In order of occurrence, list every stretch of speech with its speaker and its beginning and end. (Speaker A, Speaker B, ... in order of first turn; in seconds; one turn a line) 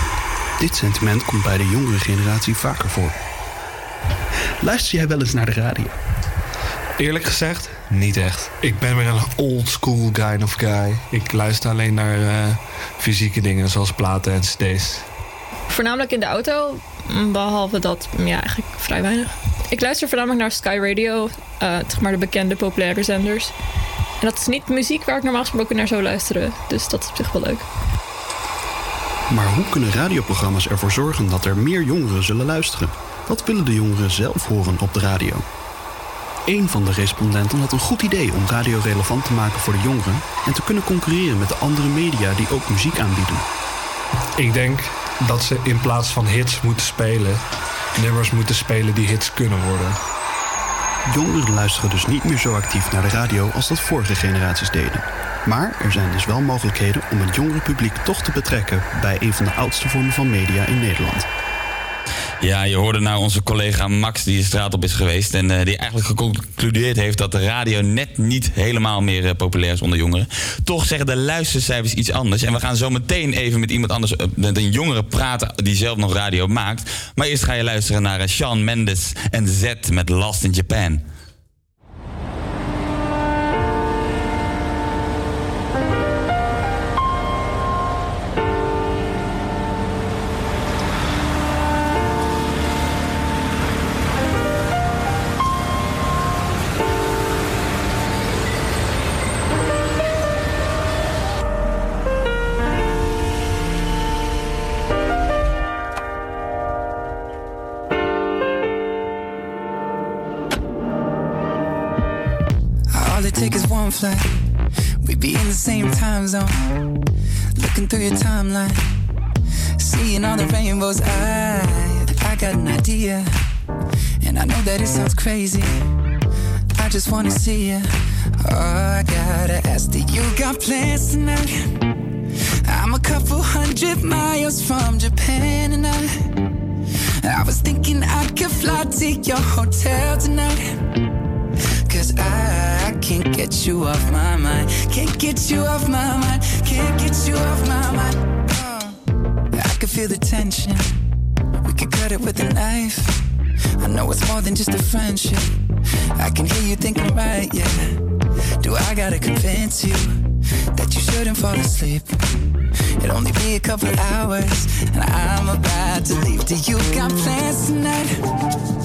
Speaker A: 0.6-3.1
Speaker B: 2.0-2.6
Speaker B: 4.6-5.9
Speaker B: 7.0-15.0
Speaker C: 15.7-23.5
Speaker C: 24.2-27.6
Speaker A: 29.3-35.5
Speaker A: 36.5-43.5
Speaker B: 44.4-47.4
Speaker B: 48.0-49.9
Speaker A: 51.0-61.3
Speaker D: 62.4-81.0
Speaker E: 112.9-114.3
Speaker E: 115.0-116.7
Speaker E: 117.5-118.8
Speaker E: 119.8-123.3
Speaker E: 124.2-125.8
Speaker E: 126.8-131.7
Speaker E: 132.6-136.1
Speaker E: 137.2-140.7
Speaker E: 141.9-148.9
Speaker E: 149.5-150.8
Speaker E: 151.6-153.2
Speaker E: 153.8-155.6
Speaker E: 156.2-158.0
Speaker E: 158.6-160.2
Speaker E: 160.7-162.2
Speaker E: 163.0-168.2